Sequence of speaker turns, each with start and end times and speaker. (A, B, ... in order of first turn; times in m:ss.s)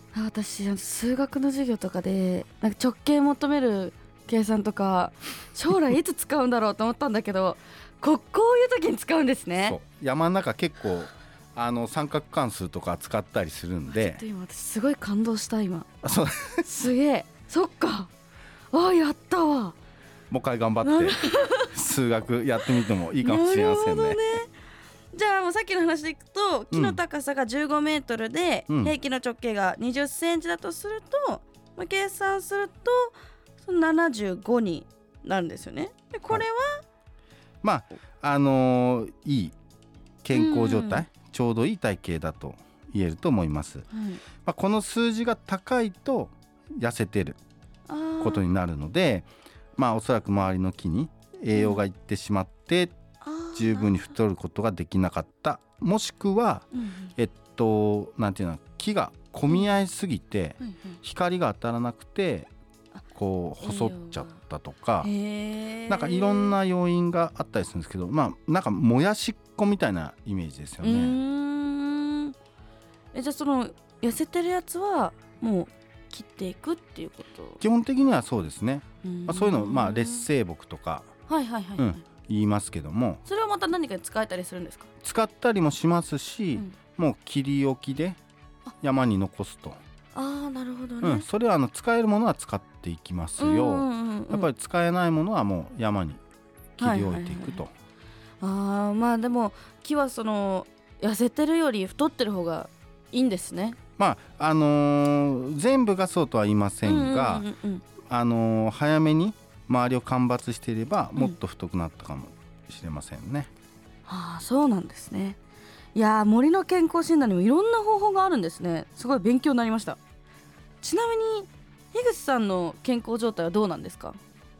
0:00.1-0:09.8 A
0:09.6-0:14.2 B
0:13.9-0:15.9 A
0:16.0-0:16.7 B
0:16.6-0:18.1 A
0:18.7-0:19.8 A
0:20.3-0:21.2 B
0:20.8-0:21.7 A
0:21.7-0:24.2 B
0:23.2-0:24.5 A
0:25.1-0:36.8 A
0:26.7-0:27.0 B
0:28.7-0:28.9 B
0:37.6-0:39.6 B
0:40.2-0:43.9 B
0:40.3-0:41.0 A
0:43.9-0:44.2 A
0:44.4-0:47.4 B
0:47.9-0:48.4 A
0:48.2-0:53.0 B
0:51.5-0:51.8 A
0:53.2-0:54.1 A
0:53.6-1:02.5 B
0:56.7-0:57.1 A
1:00.6-1:01.0 A
1:03.1-1:05.1 B
1:03.6-1:04.4 A
1:05.0-1:06.6 A
1:05.9-1:11.2 B
1:10.8-1:12.4 A
1:13.1-1:17.6 A
1:17.6-1:21.1 B
1:19.0-1:20.3 A
1:21.3-1:22.0 A
1:21.8-1:23.2 B
1:23.2-1:24.9 A
1:25.0-1:28.2 B
1:28.8-1:29.8 B
1:30.2-1:31.3 A
1:31.0-1:36.2 B
1:33.4-1:34.5 A
1:36.8-1:37.7 B
1:36.8-1:37.6 A
1:38.4-1:43.8 A
1:44.0-1:47.5 B
1:46.8-1:47.8 A
1:48.1-1:53.5 B
1:54.1-1:55.4 A
1:56.0-2:00.0 A
2:00.8-2:04.2 A